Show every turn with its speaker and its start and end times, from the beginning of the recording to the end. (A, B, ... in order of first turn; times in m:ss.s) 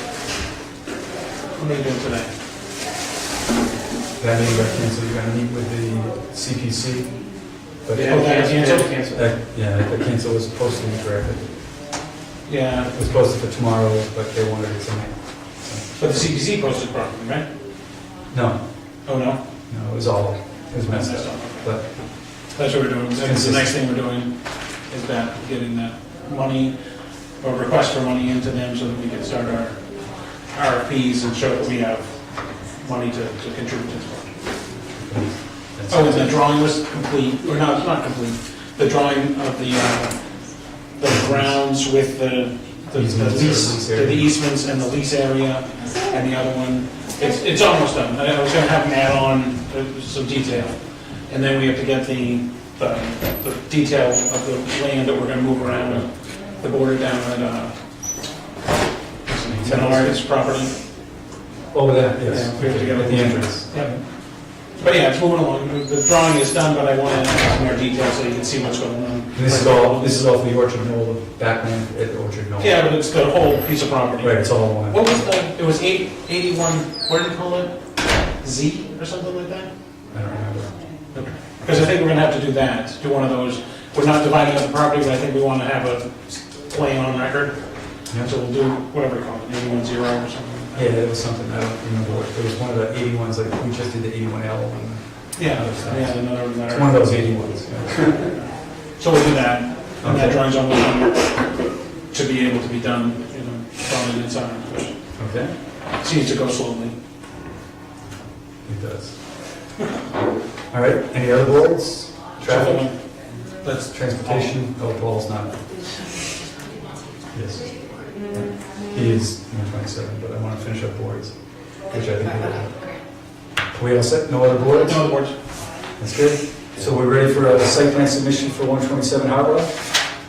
0:01.6-0:02.3 A
0:04.2-0:11.9 B
0:07.9-0:09.2 A
0:12.4-0:12.9 A
0:12.9-0:16.2 B
0:16.0-0:17.5 A
0:18.3-0:18.6 B
0:19.0-0:19.4 A
0:19.7-0:22.0 B
0:20.8-0:26.8 A
0:23.2-0:23.7 B
0:27.4-0:34.4 A
0:35.0-0:36.3 B
0:35.9-0:40.2 A
0:40.9-0:57.7 A
0:41.1-0:41.5 B
0:42.9-0:44.3 B
0:59.2-1:00.7 A
0:59.5-1:00.2 B
1:01.7-1:04.0 B
1:02.2-1:04.0 A
1:04.8-1:10.3 A
1:09.3-1:12.8 B
1:12.6-1:17.8 A
1:14.2-1:15.2 B
1:18.4-1:19.7 A
1:20.1-1:20.7 B
1:21.1-1:27.6 A
1:28.2-1:30.9 A
1:30.7-1:38.3 B
1:35.4-1:37.3 A
1:39.0-1:41.5 A
1:40.0-1:40.4 B
1:42.1-1:44.9 A
1:45.2-1:45.5 B
1:46.0-1:47.0 A
1:48.6-1:49.1 B
1:50.7-1:52.9 B
1:52.4-1:53.0 A
1:53.6-1:54.5 A
1:53.8-1:55.6 B
1:57.3-1:57.7 B
1:58.3-2:02.8 B
2:03.7-2:05.1 B
2:04.6-2:05.3 A
2:06.0-2:09.8 B